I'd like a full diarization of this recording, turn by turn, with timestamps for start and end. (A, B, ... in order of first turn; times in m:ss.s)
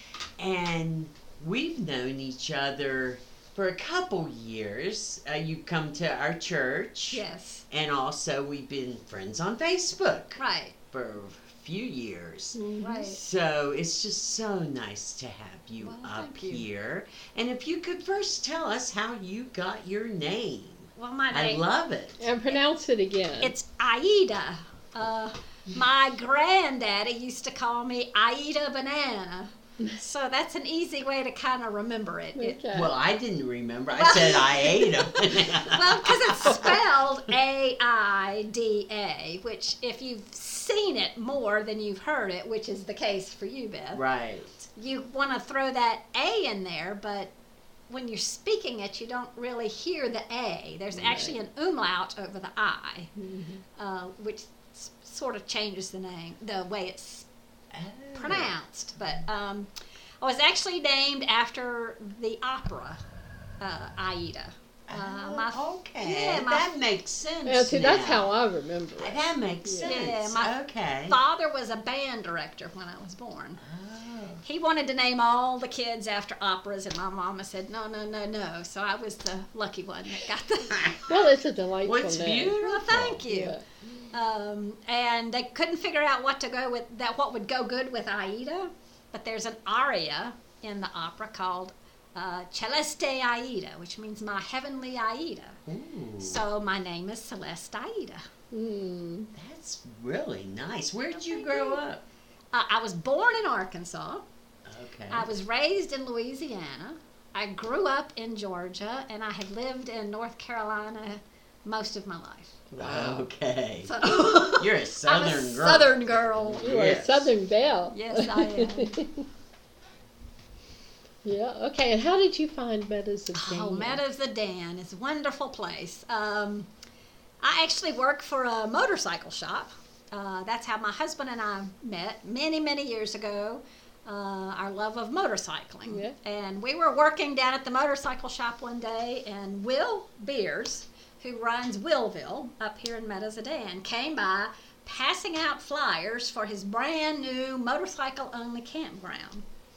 0:00.4-0:22.2 A
0:07.1-0:07.6 B
0:10.4-0:10.7 B
0:12.5-0:12.9 C
0:12.8-0:13.2 B
0:15.8-0:16.6 B
0:21.0-0:21.6 B
0:22.2-0:23.5 C
0:23.4-0:32.6 B
0:32.4-0:32.9 C
0:32.7-0:36.8 A
0:33.9-0:44.0 B
0:43.9-0:44.6 A
0:44.7-0:47.3 B
0:47.9-0:53.1 B
0:51.0-0:51.3 C
0:53.2-0:53.6 C
0:53.8-0:57.3 B
0:57.7-0:58.5 A
0:58.1-0:59.7 B
1:00.2-1:03.0 B
1:03.6-1:06.7 B
1:04.9-1:08.3 A
1:07.4-1:10.0 C
1:09.0-1:11.2 A
1:09.8-1:10.5 B
1:11.1-1:13.6 B
1:13.6-1:14.4 A
1:14.4-1:21.0 B
1:20.7-1:21.1 A
1:21.1-1:22.6 C
1:21.8-1:23.2 A
1:22.6-1:23.6 B
1:23.3-1:23.6 C
1:24.1-1:35.6 B
1:35.7-1:36.4 A
1:36.2-1:38.3 B
1:38.5-1:39.3 C
1:39.3-1:42.0 A
1:41.1-1:41.8 B
1:42.5-1:44.2 B
1:44.6-1:45.3 A
1:45.1-1:52.7 B
1:52.7-1:53.2 C
1:52.8-1:57.3 A
1:53.8-1:56.6 B
1:56.6-1:59.2 C
1:57.9-1:59.0 B
2:01.2-2:04.0 C
2:03.3-2:06.7 B
2:07.4-2:29.4 B
2:15.9-2:16.2 C